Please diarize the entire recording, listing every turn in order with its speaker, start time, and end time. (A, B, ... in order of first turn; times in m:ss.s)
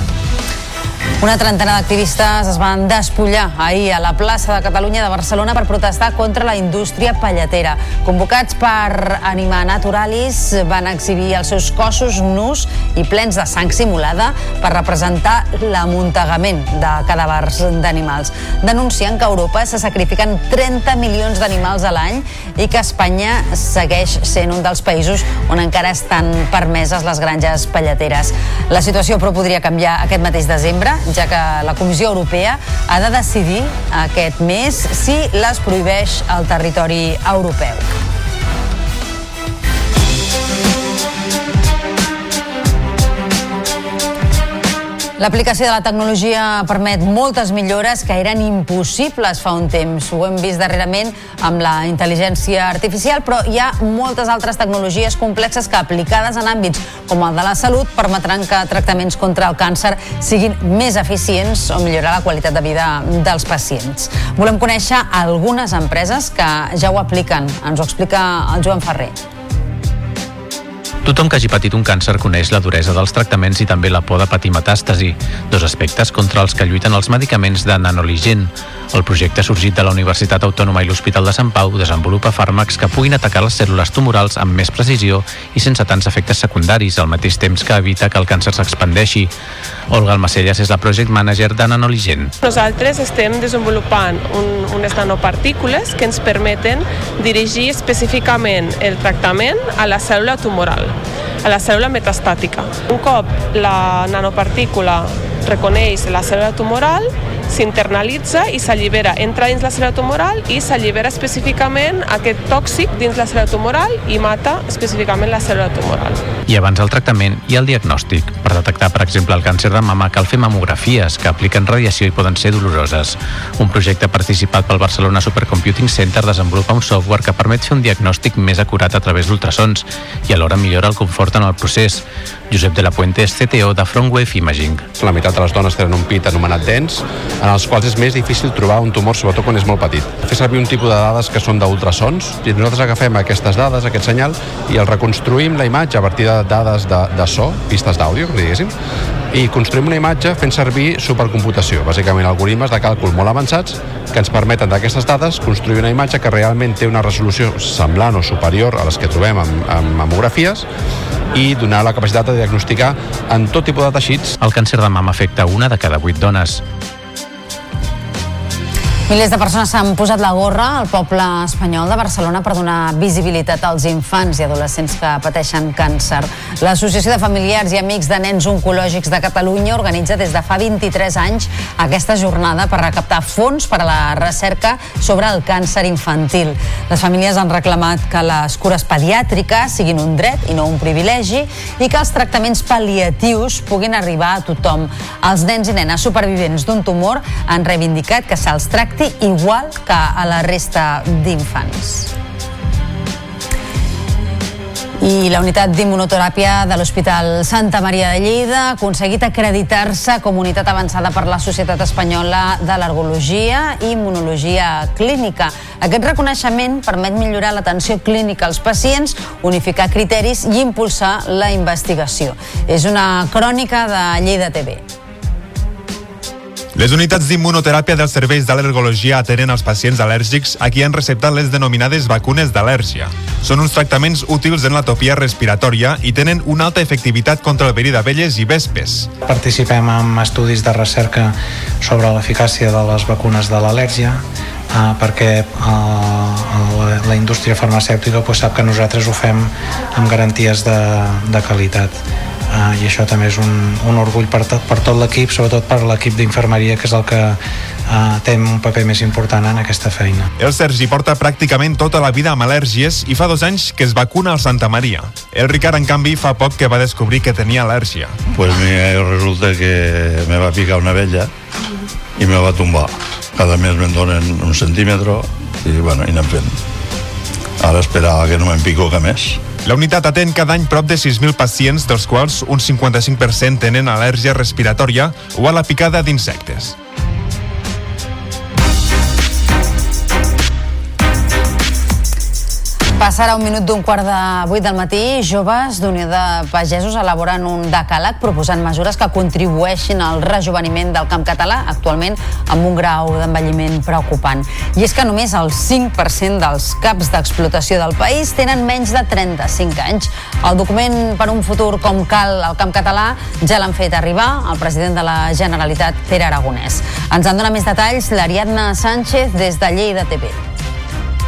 0:01.2-0:37.9 A
0:45.2-1:09.2 A
1:11.0-1:29.3 B
1:29.9-1:32.3 B
1:32.4-1:56.2 C
1:56.5-2:14.8 B
2:15.0-2:28.7 D
2:29.3-2:40.6 D
2:41.3-2:44.4 D
2:44.4-2:46.6 B
2:49.1-3:22.1 A
3:25.0-3:44.8 A
3:46.8-3:59.1 E
3:59.2-4:20.3 F
4:20.4-4:28.2 E
4:28.3-4:31.3 G
4:32.2-4:36.6 G
4:37.6-4:39.4 G
4:39.6-4:46.7 E
4:53.0-5:20.4 A